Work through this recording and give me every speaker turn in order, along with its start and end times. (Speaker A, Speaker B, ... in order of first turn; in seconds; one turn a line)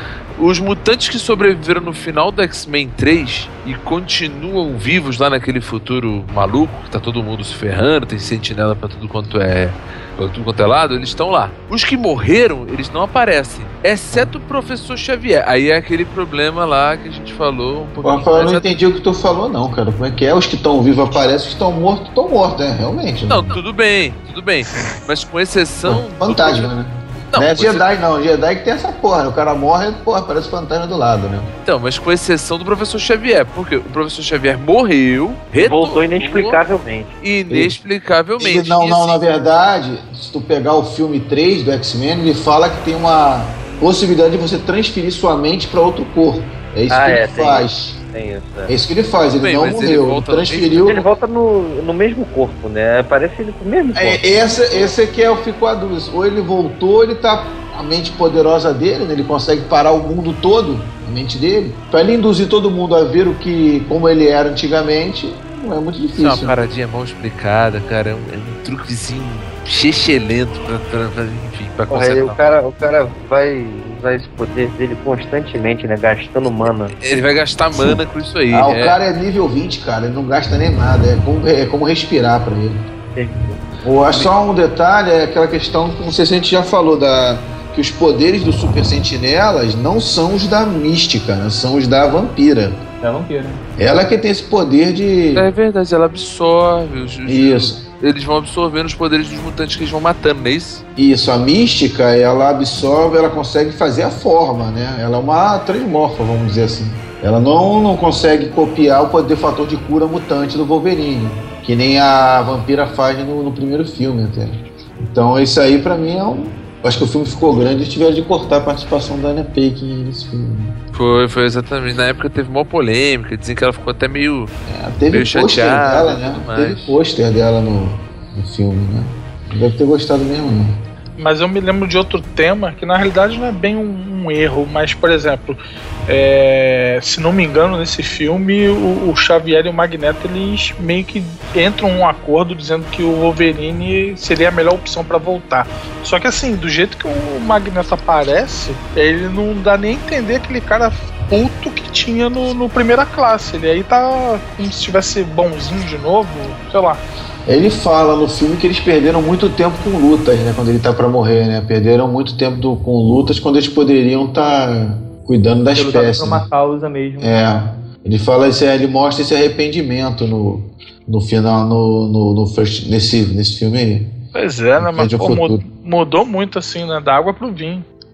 Speaker A: 0.4-18.8
Speaker B: 18.0-23.6
Speaker A: 23.3-26.7
Speaker B: 25.9-31.5
Speaker A: 27.3-27.9
Speaker A: 31.6-36.6
Speaker C: 35.6-37.2
Speaker A: 37.2-39.2
Speaker B: 37.5-37.8
Speaker B: 38.4-48.0
Speaker C: 46.9-48.7
Speaker B: 48.7-51.0
Speaker A: 49.4-51.0
Speaker C: 50.9-54.9
Speaker B: 54.0-66.6
Speaker A: 66.2-72.4
Speaker C: 71.9-76.9
Speaker A: 77.0-79.0
Speaker B: 78.5-82.8
Speaker C: 83.2-83.6
Speaker B: 83.8-92.8
Speaker D: 93.0-93.6
Speaker B: 93.8-95.5
Speaker A: 95.3-100.8
Speaker B: 97.3-97.8
Speaker B: 101.0-120.8
Speaker A: 120.9-124.5
Speaker B: 124.7-130.8
Speaker A: 125.1-127.0
Speaker E: 131.2-157.0
Speaker B: 157.5-166.5
Speaker D: 165.7-167.4
Speaker B: 167.2-174.2
Speaker E: 174.3-177.9
Speaker B: 174.8-175.7